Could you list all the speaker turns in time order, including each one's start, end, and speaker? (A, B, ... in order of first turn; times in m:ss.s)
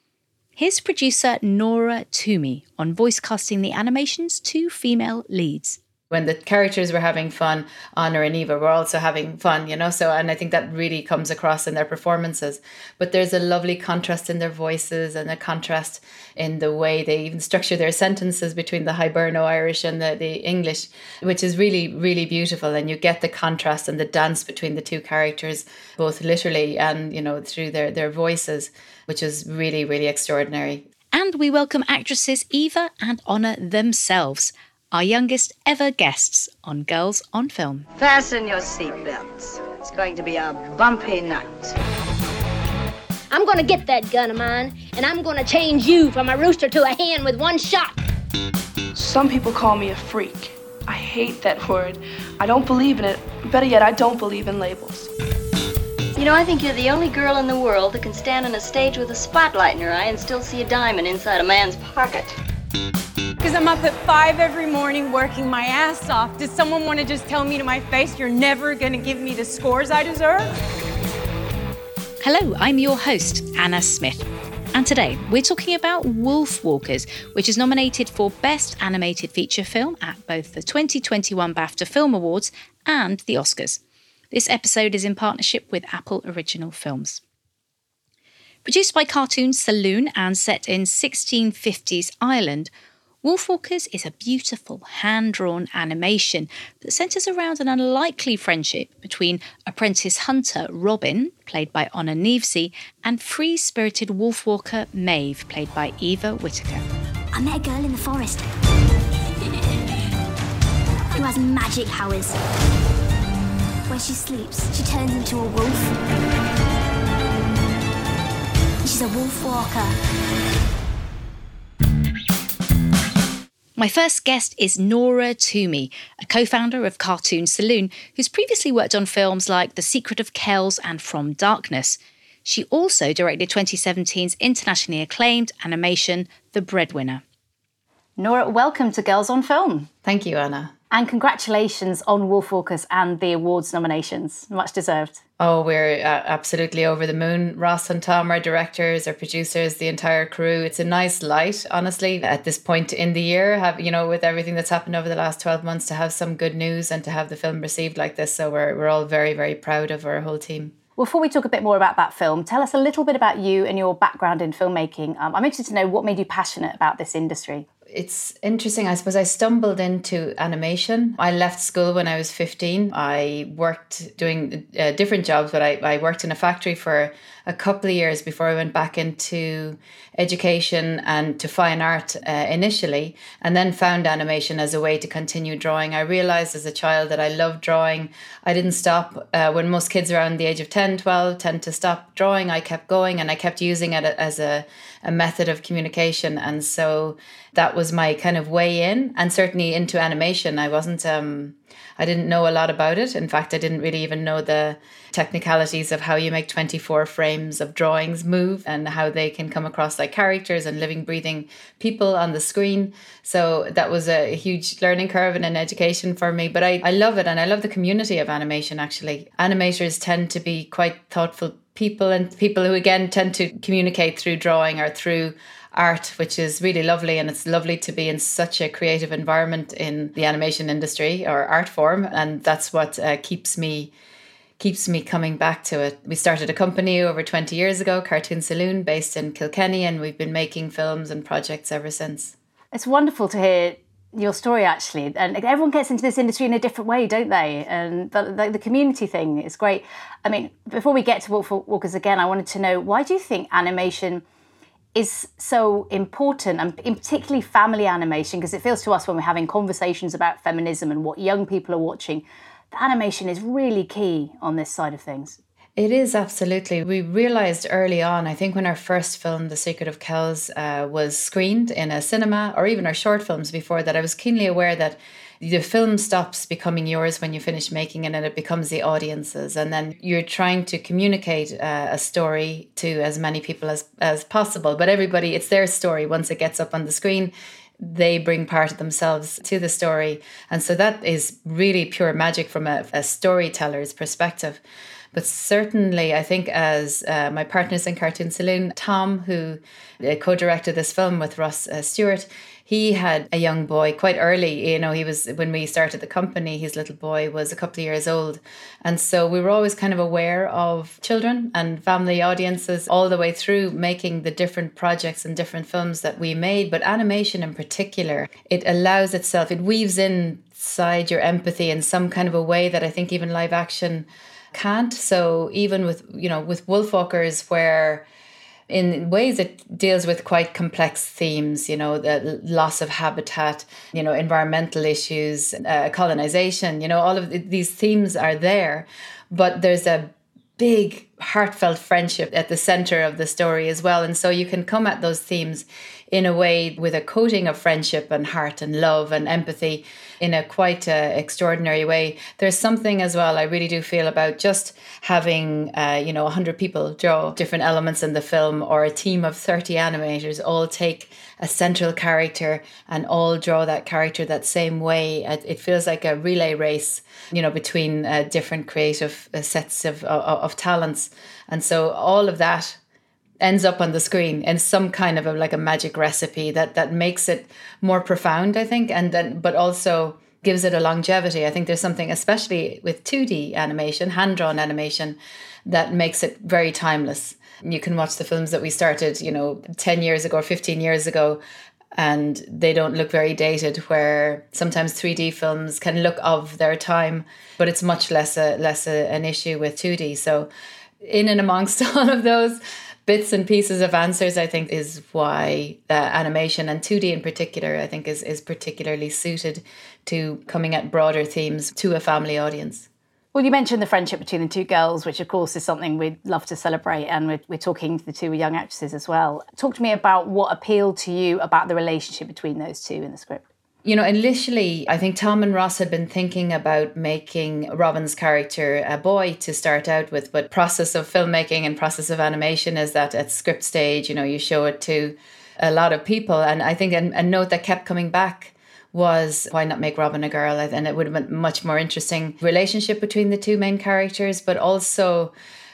0:00.6-0:05.8 A
0:06.1-0:30.8 B
0:31.1-0:37.9 A
0:37.9-0:41.7 C
0:43.3-0:48.0 D
0:48.9-0:55.1 E
0:56.2-1:02.4 F
1:03.4-1:10.5 G
1:12.2-1:23.8 A
1:24.3-1:27.2 A
1:28.6-1:32.7 A
1:33.2-1:46.8 A
1:47.3-1:48.4 H
1:51.1-1:52.4 H
1:53.9-1:56.0 H
1:58.8-1:59.9 H
2:03.8-2:17.2 A
2:18.2-2:19.9 A
2:20.0-2:20.7 B
2:20.9-2:25.2 A
2:25.4-2:40.7 B
2:41.0-2:47.6 A
2:47.9-3:53.9 B
3:54.6-4:02.3 B
4:02.7-4:14.2 A
4:14.9-4:25.4 A
4:25.8-4:54.6 B
4:55.1-5:28.0 B
5:28.7-6:12.8 B
6:13.4-6:31.4 B
6:31.9-6:40.5 B
6:41.0-6:52.9 B
6:53.3-7:03.4 A
7:03.8-7:25.3 B